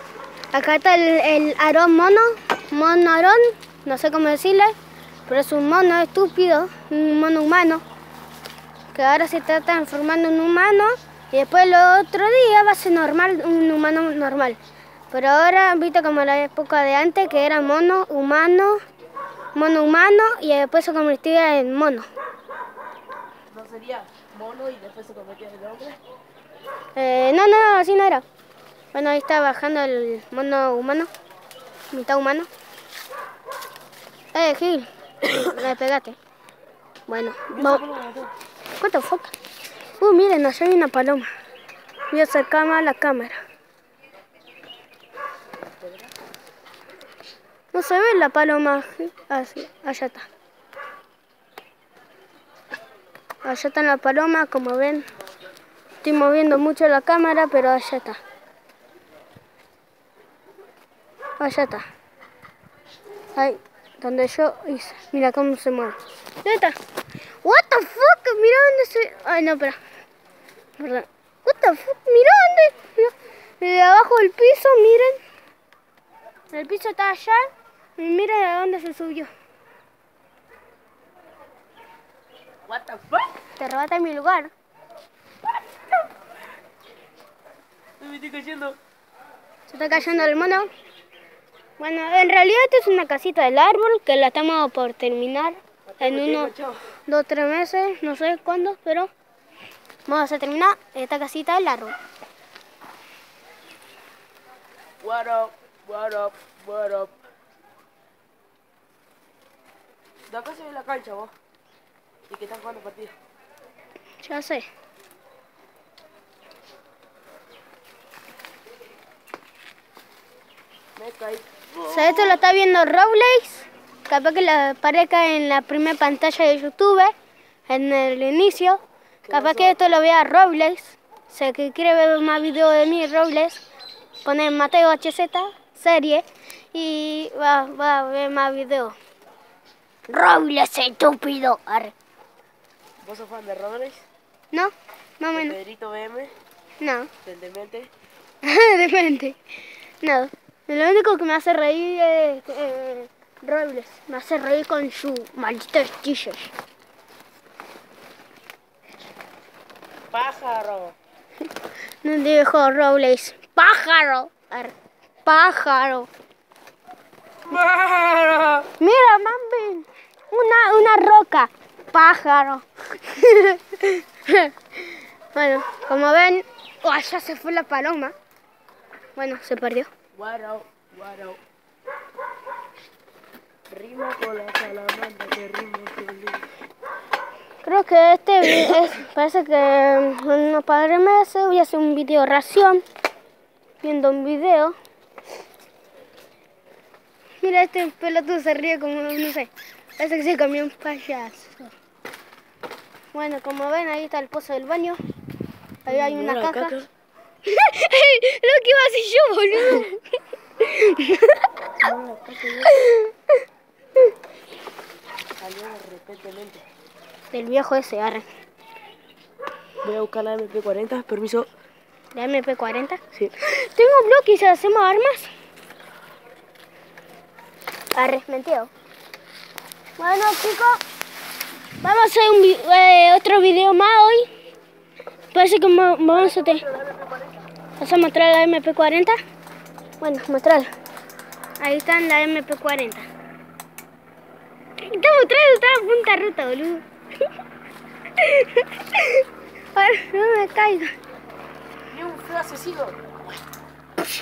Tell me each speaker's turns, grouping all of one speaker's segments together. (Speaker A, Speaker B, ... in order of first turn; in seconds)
Speaker A: 0.5-4.8, 5.3-7.8, 8.9-14.6, 15.1-18.8, 19.5-22.1, 26.9-28.2, 28.9-31.1, 31.9-32.5, 34.3-36.2, 37.1-37.9, 38.8-39.3, 40.0-41.3, 42.1-43.4, 47.7-50.3, 53.4-55.1, 56.0-58.2, 61.4-61.9, 63.4-66.8, 67.4-69.8, 70.8-75.2, 76.5-79.3, 83.6-84.5, 89.7-90.7, 91.8-96.5, 97.1-99.1, 100.1-102.0, 114.2-114.7, 121.8-127.2, 127.7-133.6, 134.2-139.0, 140.1-141.9, 144.5-145.6, 146.8-147.1, 148.4-149.4, 150.0-156.5, 162.0-166.1, 168.8-178.1, 179.2-179.9, 187.6-192.8, 193.8-194.8, 197.4-201.7, 203.1-205.0, 205.9-206.8, 207.4-210.0, 210.6-211.5, 212.7-213.4, 217.3-218.3, 222.1-225.3, 227.9-228.7, 230.0-230.8, 231.8-234.3, 235.3-236.7, 237.8-239.2, 240.0-240.7, 241.6-243.1, 244.8-246.8, 248.2-250.9
Speaker B: 23.5-26.0, 37.5-38.3, 45.7-46.1, 82.7-83.3, 88.0-88.8, 89.9-90.7, 95.9-96.9, 105.0-107.2, 110.3-111.3, 112.3-113.2, 121.0-121.7, 129.2-129.8, 143.0-144.1, 145.3-146.3, 147.2-147.9, 160.1-161.0, 167.5-168.7, 180.2-181.4, 183.7-186.5, 205.9-206.9, 211.8-212.7, 215.4-216.7, 219.8-221.5, 236.1-237.4, 251.9-253.2